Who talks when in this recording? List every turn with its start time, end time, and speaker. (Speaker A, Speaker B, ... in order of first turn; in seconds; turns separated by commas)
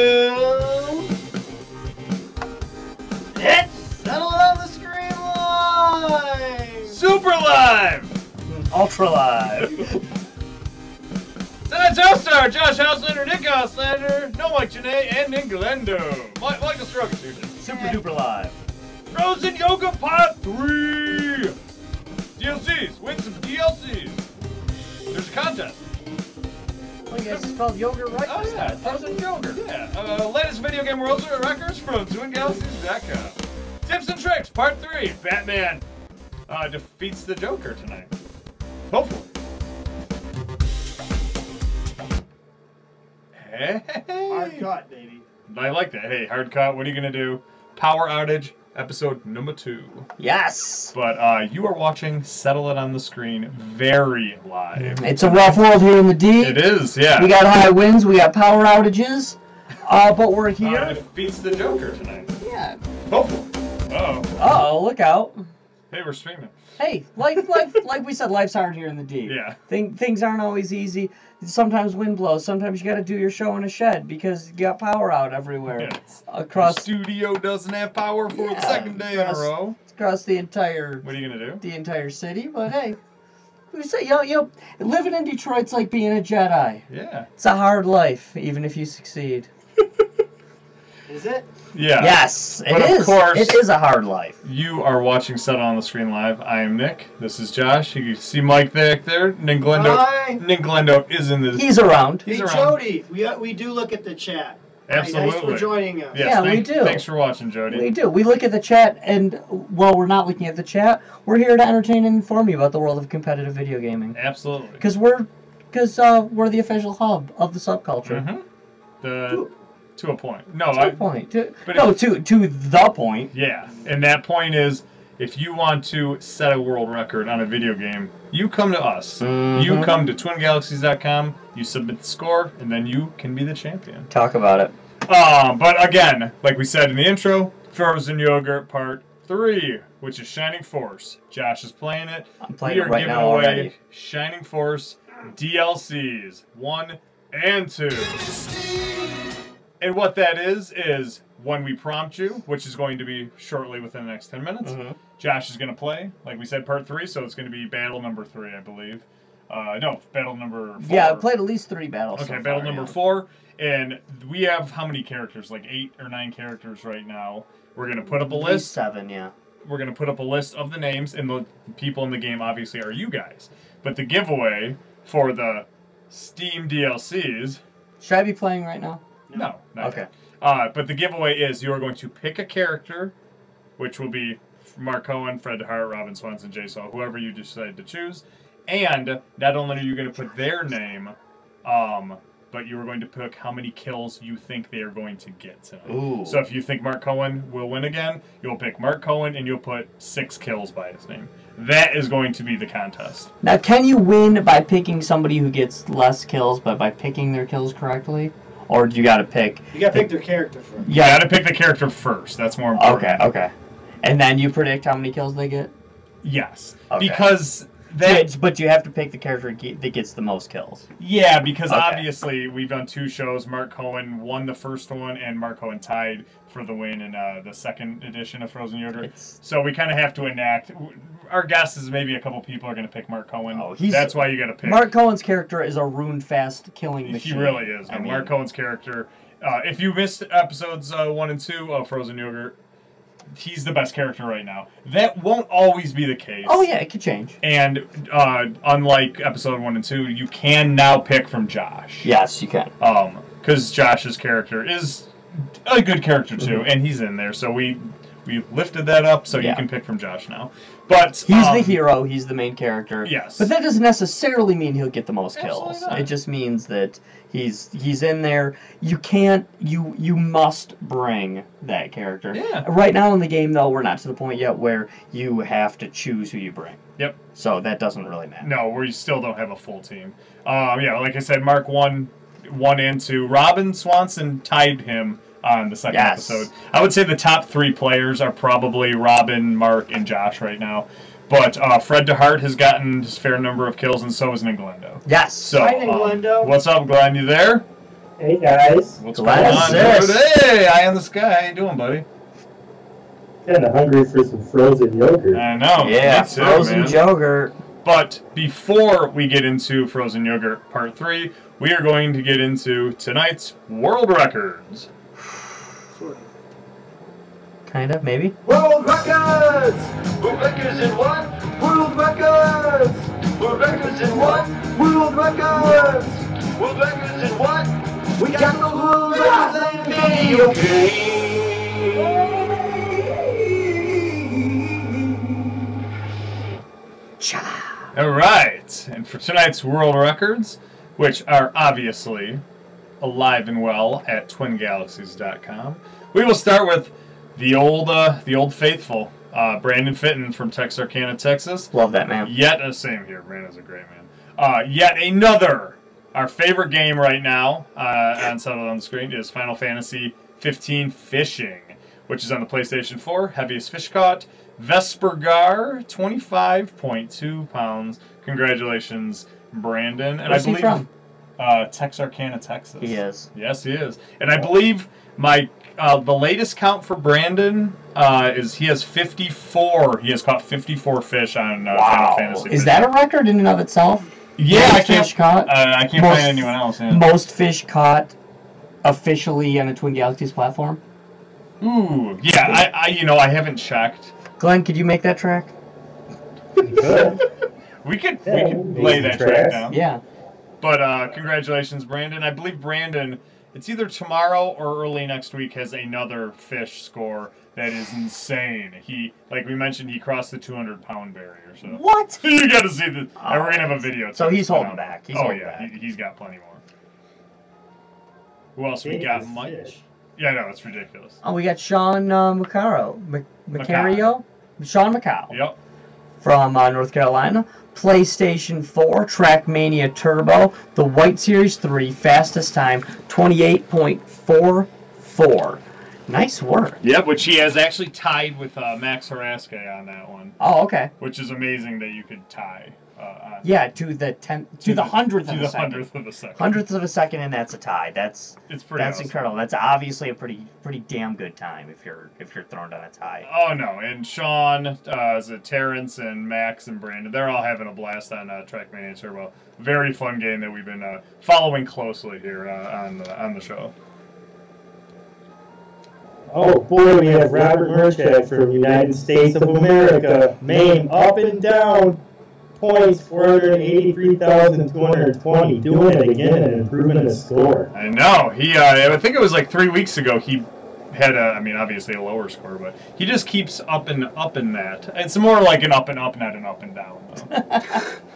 Speaker A: 0.5-0.8, Speaker A: 3.4-6.0, Speaker B: 4.2-4.9, Speaker B: 5.8-7.0, Speaker C: 6.8-8.1, Speaker D: 8.5-10.0, Speaker C: 9.6-9.8, Speaker C: 11.7-18.0, Speaker D: 17.6-18.6, Speaker C: 19.1-21.6, Speaker C: 22.4-24.2, Speaker C: 25.1-25.8, Speaker D: 27.1-29.6, Speaker C: 28.2-35.9, Speaker C: 36.5-38.1, Speaker C: 38.9-39.3, Speaker C: 43.4-44.6, Speaker B: 44.3-45.3, Speaker C: 45.5-50.1, Speaker D: 50.2-51.0, Speaker C: 50.9-55.6, Speaker D: 54.8-61.0, Speaker C: 56.4-57.3, Speaker C: 60.6-62.4, Speaker D: 62.4-62.8, Speaker C: 63.1-64.4, Speaker D: 64.4-65.4, Speaker C: 65.9-66.6, Speaker D: 66.8-76.9, Speaker C: 69.2-69.6, Speaker C: 75.7-79.8, Speaker D: 78.3-83.0, Speaker C: 81.0-81.6, Speaker D: 83.7-86.9, Speaker C: 86.9-87.3, Speaker D: 87.4-89.5, Speaker B: 91.1-91.5, Speaker C: 91.7-93.6, Speaker D: 92.0-94.4, Speaker C: 94.5-101.7, Speaker A: 99.8-100.4, Speaker B: 99.8-100.3, Speaker D: 101.5-102.3, Speaker C: 102.2-102.8, Speaker A: 102.3-102.8, Speaker B: 102.6-106.2, Speaker C: 104.9-107.9, Speaker A: 105.1-106.2, Speaker D: 106.2-107.0, Speaker D: 107.7-114.2, Speaker C: 114.1-114.8, Speaker D: 114.8-118.3, Speaker C: 118.0-118.5, Speaker C: 119.0-121.0, Speaker D: 120.7-123.3, Speaker C: 121.7-122.0, Speaker C: 123.3-134.1, Speaker D: 129.2-130.0, Speaker D: 134.1-134.7, Speaker C: 135.1-148.4, Speaker D: 142.4-143.8, Speaker C: 149.8-161.3, Speaker D: 154.6-155.0, Speaker D: 160.8-163.0, Speaker C: 162.1-168.8, Speaker D: 168.3-169.3, Speaker C: 169.6-177.6, Speaker D: 178.0-179.0, Speaker C: 179.3-183.1, Speaker D: 179.8-180.1, Speaker C: 183.8-203.3, Speaker D: 195.9-196.4, Speaker D: 203.4-210.1, Speaker B: 209.7-210.9, Speaker D: 210.9-211.3, Speaker C: 210.9-213.3, Speaker D: 212.8-215.7, Speaker C: 216.2-218.3, Speaker D: 216.9-217.3, Speaker D: 218.0-220.9, Speaker C: 221.0-234.9, Speaker D: 221.7-222.1, Speaker D: 229.0-229.4, Speaker D: 233.5-238.3, Speaker C: 237.0-242.6, Speaker C: 243.3-246.7, Speaker D: 246.4-247.4, Speaker C: 247.4-252.1, Speaker D: 252.0-252.7, Speaker C: 252.8-261.8, Speaker D: 259.3-259.6, Speaker D: 261.3-276.8, Speaker C: 263.0-263.5, Speaker C: 265.4-266.1, Speaker C: 272.3-272.7, Speaker D: 277.4-278.5, Speaker C: 278.4-297.6, Speaker D: 285.9-286.5, Speaker D: 295.1-295.6, Speaker A: 295.6-296.5, Speaker E: 298.2-300.0, Speaker C: 299.0-302.1, Speaker D: 299.1-300.2, Speaker E: 303.4-305.4, Speaker C: 305.3-307.0, Speaker D: 305.8-307.6, Speaker C: 307.8-314.9, Speaker D: 317.7-318.4, Speaker A: 318.5-333.1, Speaker B: 329.0-330.5, Speaker D: 337.2-337.8, Speaker C: 337.9-342.4, Speaker C: 343.0-370.9, Speaker D: 351.7-352.4, Speaker D: 370.2-370.9, Speaker C: 371.4-382.9, Speaker D: 372.8-373.3, Speaker D: 381.7-388.1, Speaker C: 384.4-387.1, Speaker D: 388.8-390.8, Speaker C: 391.6-394.1, Speaker D: 394.4-395.5, Speaker E: 396.6-397.2, Speaker C: 397.8-399.8, Speaker E: 398.3-399.6, Speaker D: 399.7-400.0, Speaker C: 400.6-416.6, Speaker D: 411.6-412.3, Speaker D: 413.2-415.7, Speaker C: 418.6-419.6, Speaker E: 418.8-419.8, Speaker C: 420.2-421.2, Speaker D: 421.2-425.4, Speaker C: 423.6-424.1, Speaker C: 425.3-425.6, Speaker D: 426.2-436.8, Speaker C: 436.8-440.4, Speaker D: 440.4-440.9, Speaker C: 441.0-443.5, Speaker D: 443.4-453.3, Speaker C: 444.6-446.6, Speaker C: 448.5-449.1, Speaker C: 453.2-463.7, Speaker E: 466.3-472.0, Speaker E: 472.6-477.7, Speaker C: 477.7-487.8, Speaker D: 487.3-487.9